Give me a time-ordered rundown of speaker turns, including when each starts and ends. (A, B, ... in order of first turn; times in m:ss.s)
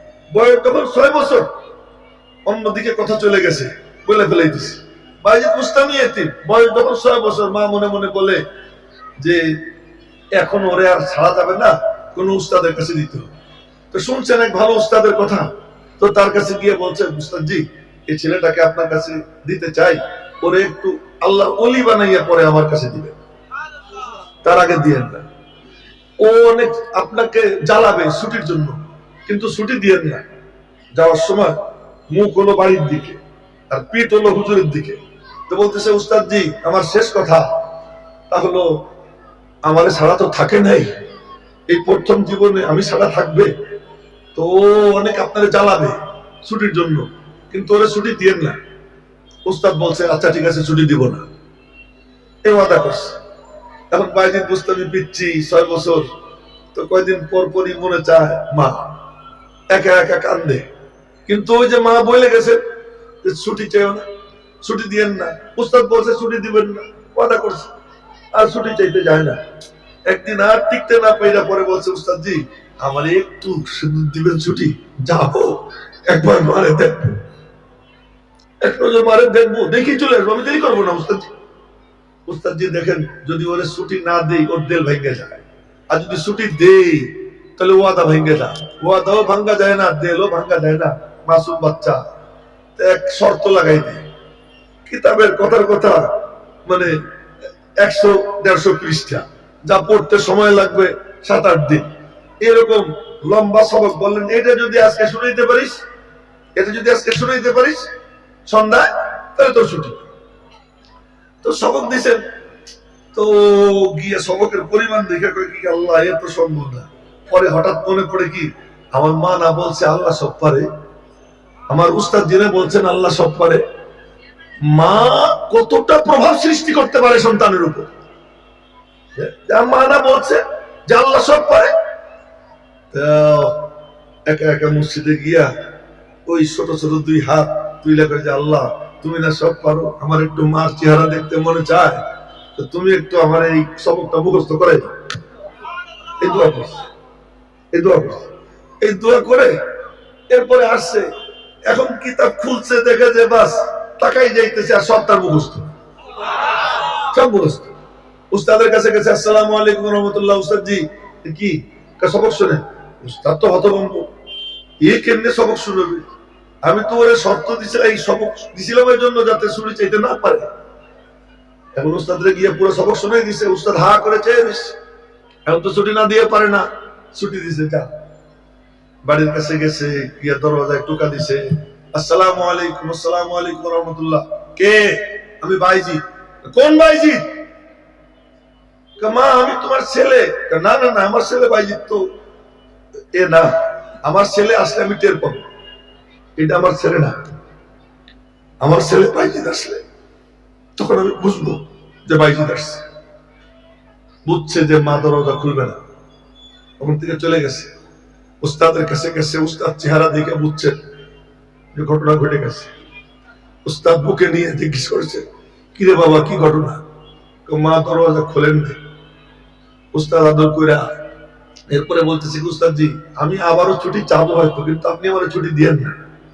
0:00.3-0:01.5 A
0:02.4-0:08.4 A
0:09.2-0:09.6 A
0:10.3-0:13.3 A
0:13.9-0:23.2 A
0:24.4-0:25.3 A
0:26.2-0:30.2 A
0:30.9-0:31.6 A
0:32.1-0:33.2 A
0:33.7-0:37.5 A
0:38.3-0:38.9 A
0:39.6-0:41.0 A
0:41.7-0:43.5 A
0:44.3-0:48.6 A
0:49.4-0:51.2 A
0:52.4-0:53.2 A
0:53.9-0:56.1 A
0:56.7-0:58.9 A
0:59.7-1:00.7 A
1:01.2-1:02.6 A
1:03.2-1:04.0 A
1:04.6-1:07.7 A
1:08.3-1:09.4 A
1:10.1-1:17.2 A
1:18.6-1:21.3 A
1:22.3-1:32.0 A
1:32.8-1:34.0 A
1:34.8-1:37.0 A
1:37.8-1:41.9 A
1:42.4-1:45.8 A
1:46.6-1:47.9 A
1:48.4-1:50.1 A
1:51.4-1:52.2 A
1:53.1-2:00.7 A
2:01.7-2:03.6 A
2:04.6-2:07.9 A
2:09.2-2:11.7 A
2:12.9-2:13.7 A
2:14.2-2:15.6 A
2:16.2-2:22.0 A
2:22.6-2:24.9 A
2:26.2-2:26.8 A
2:27.7-2:28.3 A
2:28.8-2:29.6 A
2:30.3-2:31.1 A
2:31.6-2:35.7 A
2:37.0-2:37.7 A
2:38.3-2:44.1 A
2:44.8-2:46.1 A
2:46.6-2:50.5 A
2:51.7-2:54.8 A
2:55.4-2:57.9 A
2:59.0-3:07.4 A
3:09.0-3:12.1 A
3:13.1-3:15.5 A
3:16.4-3:17.2 A
3:18.6-3:19.8 A
3:20.8-3:22.8 A
3:24.2-3:25.8 A
3:26.8-3:27.7 A
3:28.4-3:30.8 A
3:31.7-3:32.7 A
3:33.6-3:36.8 A
3:37.4-3:38.8 A
3:39.9-3:40.9 A
3:41.7-3:46.0 A